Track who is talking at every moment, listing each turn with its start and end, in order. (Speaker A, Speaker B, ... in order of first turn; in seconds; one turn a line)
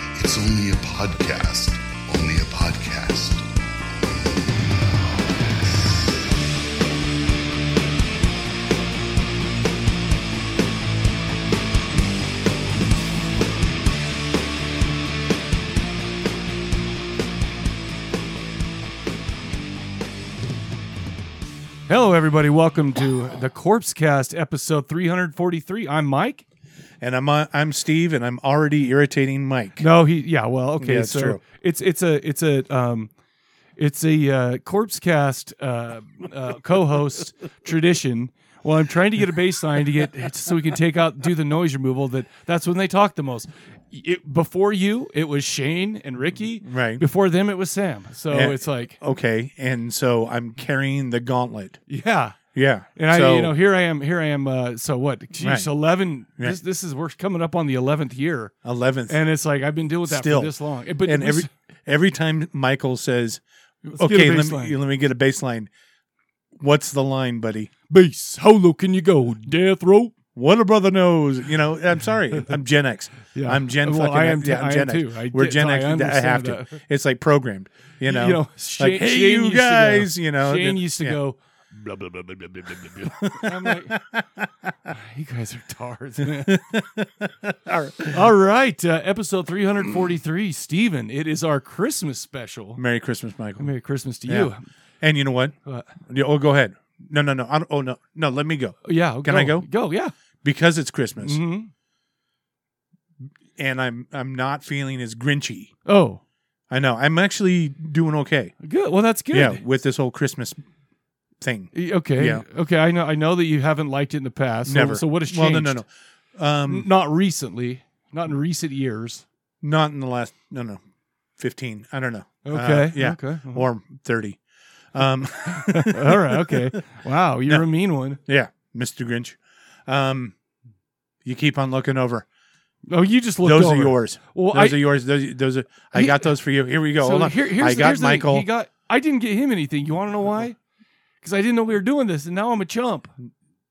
Speaker A: 0.1-3.5
Speaker A: 4.0-4.5
Speaker B: 21.9-26.4
Speaker C: 27.0-29.9
Speaker B: 29.8-33.1
Speaker C: 30.8-31.4
Speaker B: 33.8-49.0
Speaker C: 46.6-47.0
Speaker C: 48.3-51.8
Speaker B: 51.9-52.4
Speaker C: 52.5-53.5
Speaker B: 52.9-58.5
Speaker C: 55.4-55.7
Speaker C: 58.6-59.2
Speaker B: 59.1-61.5
Speaker C: 60.0-65.7
Speaker B: 63.9-64.8
Speaker C: 66.5-67.7
Speaker B: 67.9-70.1
Speaker C: 70.3-81.2
Speaker B: 73.3-76.8
Speaker B: 78.0-84.0
Speaker C: 82.8-84.4
Speaker B: 84.9-86.6
Speaker C: 86.2-88.2
Speaker B: 88.1-92.8
Speaker C: 92.8-93.7
Speaker B: 93.6-94.6
Speaker C: 94.2-99.7
Speaker B: 95.7-95.9
Speaker B: 98.8-100.1
Speaker C: 100.4-101.4
Speaker B: 101.2-101.7
Speaker C: 103.5-105.7
Speaker B: 105.8-106.2
Speaker C: 106.7-108.5
Speaker B: 108.6-109.6
Speaker C: 109.3-110.6
Speaker C: 111.4-112.4
Speaker B: 111.7-115.8
Speaker C: 114.6-116.9
Speaker B: 116.7-119.2
Speaker C: 119.6-120.8
Speaker C: 121.4-124.4
Speaker B: 122.4-123.7
Speaker C: 124.9-126.7
Speaker B: 125.5-128.2
Speaker C: 128.2-130.3
Speaker C: 131.2-132.2
Speaker B: 132.9-134.8
Speaker C: 133.4-138.5
Speaker B: 135.9-136.3
Speaker B: 137.0-140.6
Speaker B: 141.2-143.1